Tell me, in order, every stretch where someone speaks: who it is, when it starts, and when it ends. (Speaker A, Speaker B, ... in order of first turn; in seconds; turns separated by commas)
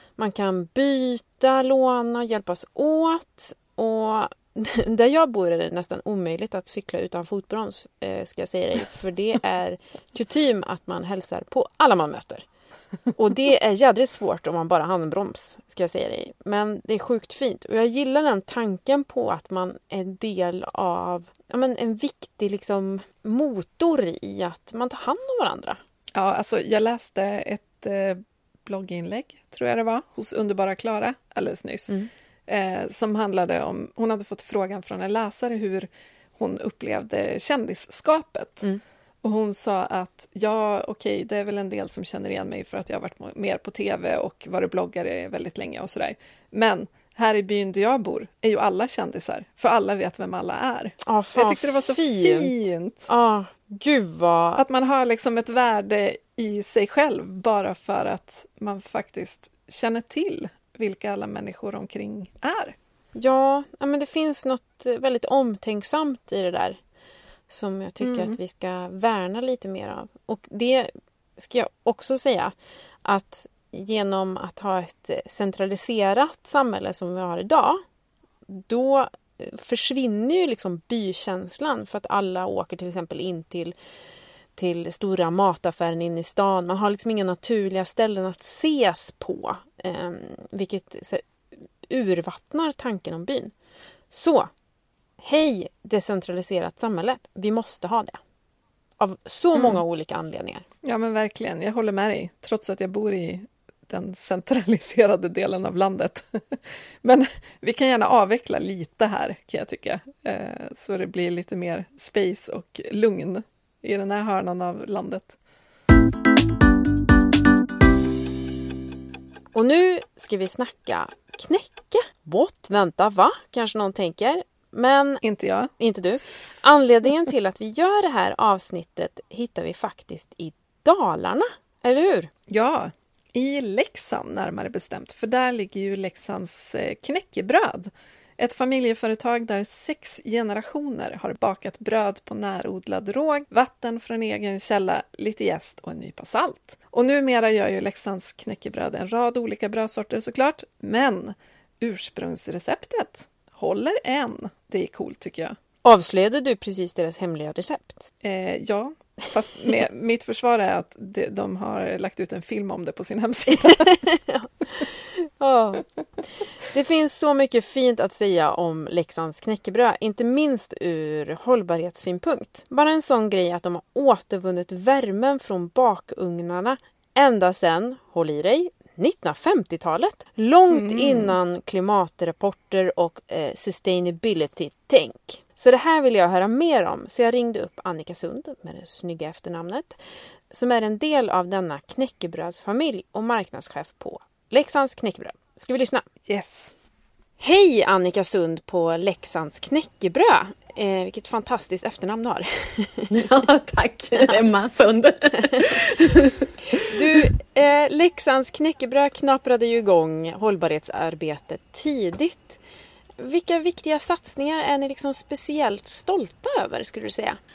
Speaker A: 0.2-12.4, Speaker A: 13.2-25.8, Speaker B: 26.1-31.9, Speaker B: 32.5-38.6, Speaker B: 39.2-53.1, Speaker A: 51.0-54.6, Speaker B: 54.5-62.7, Speaker A: 63.1-66.8, Speaker A: 67.5-77.8, Speaker B: 68.0-68.3, Speaker A: 78.5-83.7, Speaker A: 84.5-91.2, Speaker A: 91.9-93.5, Speaker A: 94.1-94.5, Speaker A: 95.2-98.2, Speaker A: 99.0-100.6, Speaker B: 99.5-99.8, Speaker B: 100.8-115.4, Speaker A: 119.5-125.2, Speaker B: 125.2-125.7, Speaker A: 125.8-132.3, Speaker B: 132.5-155.6, Speaker A: 155.8-158.1, Speaker B: 158.2-164.0, Speaker A: 163.7-165.8, Speaker A: 166.4-190.0, Speaker B: 180.7-181.3, Speaker A: 190.5-196.0, Speaker B: 196.2-196.7, Speaker A: 197.4-203.1, Speaker C: 203.1-206.5, Speaker A: 206.7-212.6, Speaker A: 213.2-217.4